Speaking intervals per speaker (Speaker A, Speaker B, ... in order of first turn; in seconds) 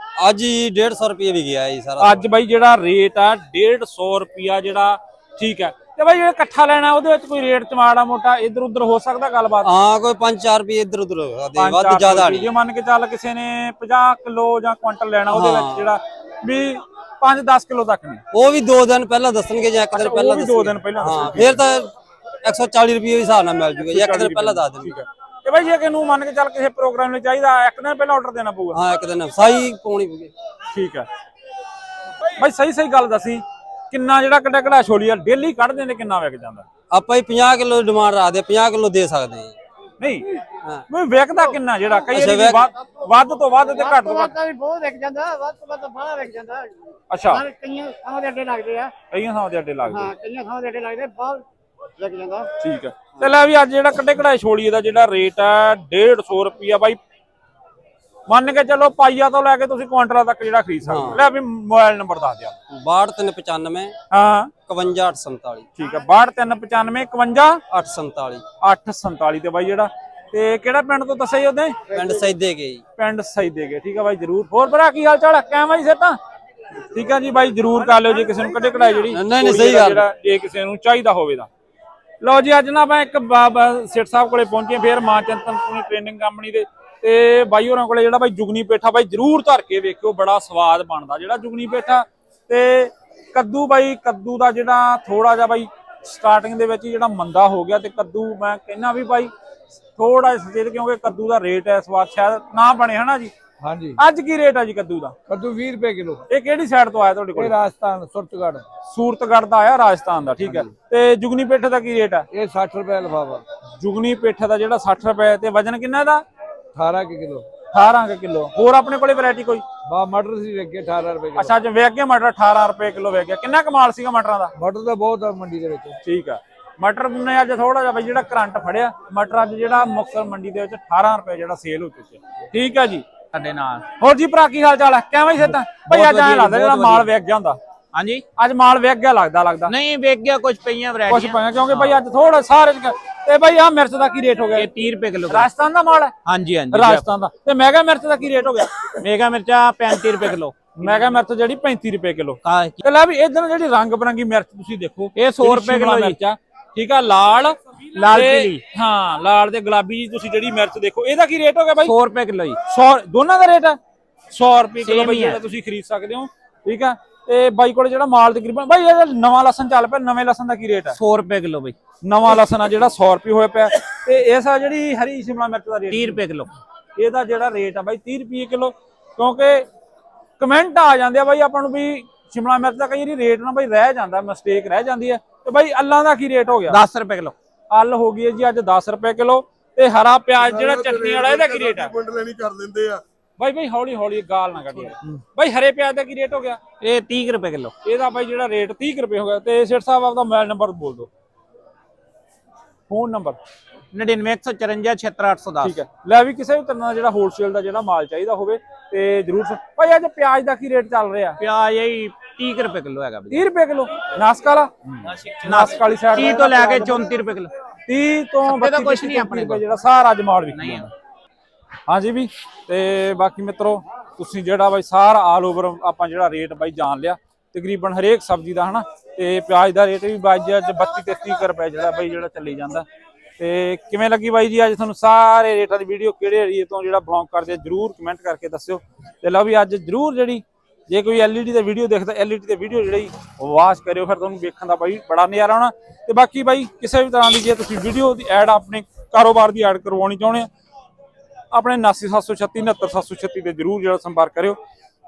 Speaker A: 0.2-2.1, 9.6-12.5, 15.3-15.9, 18.3-21.9, 22.4-24.9, 28.7-30.3, 36.9-39.5, 42.1-42.6, 60.8-61.2, 62.7-63.9, 64.6-65.7, 67.7-68.4, 71.9-72.8, 79.1-80.0
Speaker B: 2.0-9.7, 11.6-18.2, 19.9-21.6, 23.9-28.8, 30.7-31.1, 32.4-36.6, 40.0-40.3, 40.9-44.3, 47.1-47.4, 49.1-50.1, 52.6-57.0, 58.3-62.6, 64.1-64.5, 65.8-67.6, 68.6-71.8, 73.0-76.2, 76.9-81.5, 82.2-99.3, 100.0-103.3, 104.0-105.1, 106.3-107.5, 108.9-112.2, 113.8-116.2, 117.7-119.6, 121.3-124.5, 126.0-133.0, 134.0-137.6, 138.4-139.7, 141.1-144.7, 145.3-146.1, 146.7-148.8, 150.8-161.9, 162.7-163.8, 164.3-170.9, 172.0-176.2, 177.0-179.7, 180.4-186.8, 187.7-191.9, 193.4-196.6, 197.8-201.1, 202.9-203.4, 205.6-211.4, 213.3-214.7, 215.4-217.0, 217.9-220.9, 221.9-232.9, 233.4-250.5, 251.5-254.6
Speaker C: 43.7-46.7, 47.2-48.9, 49.9-51.4, 52.0-52.5, 77.9-79.0
Speaker D: 103.6-104.0, 105.3-106.2, 107.3-108.6, 112.3-113.4, 116.8-117.4, 119.9-121.5, 124.6-125.9
Speaker E: 133.3-133.8, 135.9-137.1, 137.9-138.2, 139.7-142.0, 144.5-145.5, 146.2-147.0, 149.0-151.1, 152.4-152.8, 155.2-156.2, 157.9-158.6, 161.8-162.6, 164.8-165.4, 170.9-171.7, 175.9-176.5, 186.7-187.3, 196.8-197.7, 203.9-205.8, 211.4-213.4, 215.0-217.5, 218.4-219.6, 220.5-220.9
Speaker F: 190.4-193.0